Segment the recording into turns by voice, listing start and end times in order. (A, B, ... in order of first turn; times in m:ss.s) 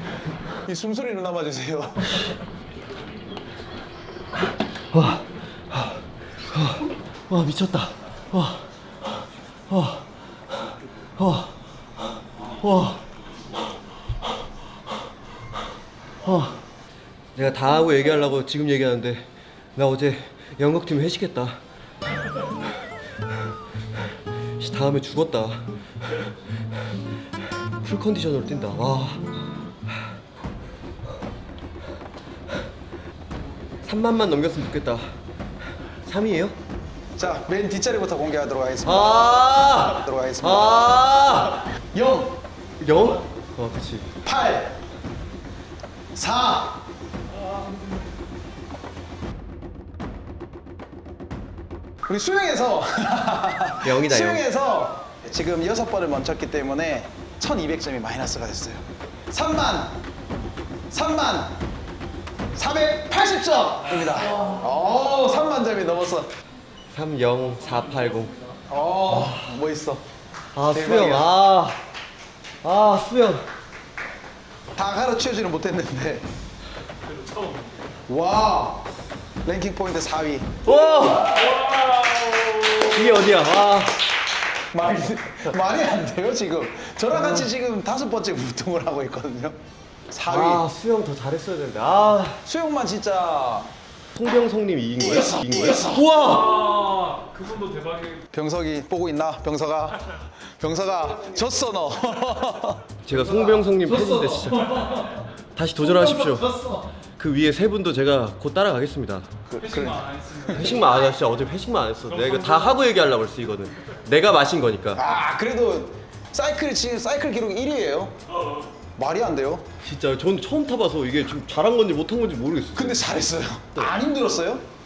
0:00.6-0:02.2 A
0:04.9-0:13.0 B
0:16.2-0:16.6 B
0:17.3-0:21.6 B
0:24.6-0:26.2 B
0:27.8-0:29.3 B
0:33.8-0:35.1 B
0:36.0-0:36.6 B
0:37.2-0:41.1 A
0:38.8-0:41.6 B
0:41.9-0:42.4 A
0:42.8-0:44.1 B
0:44.2-0:44.8 A
0:46.1-0:46.8 A
0:52.0-1:00.0 A
0:53.8-0:54.4 B
1:00.9-1:01.6 A
1:02.5-1:06.3 A
1:06.9-1:08.3 B
1:07.6-1:08.6 C
1:08.7-1:10.0 A
1:10.5-1:11.8 B
1:10.7-1:11.3 A
1:12.6-1:13.5 B
1:14.8-1:16.2 A
1:17.0-1:17.9 C
1:18.1-1:18.9 A
1:19.4-1:20.6 A
1:20.6-1:21.5 B
1:21.2-1:22.9 C
1:22.8-1:24.0 B
1:24.7-1:29.6 A
1:27.1-1:27.4 B
1:30.1-1:30.6 A
1:30.2-1:32.4 B
1:32.4-1:33.7 A
1:34.1-1:36.6 B
1:35.0-1:36.1 A
1:36.2-1:38.3 C
1:38.3-1:42.8 A
1:43.0-1:49.3 B
1:44.0-1:45.1 C
1:49.5-1:50.6 A
1:49.6-1:51.1 C
1:50.5-1:55.0 B
1:52.2-1:52.8 C
1:54.9-1:58.2 A
1:59.0-1:59.7 A
1:59.8-2:03.2 B
2:02.8-2:04.6 A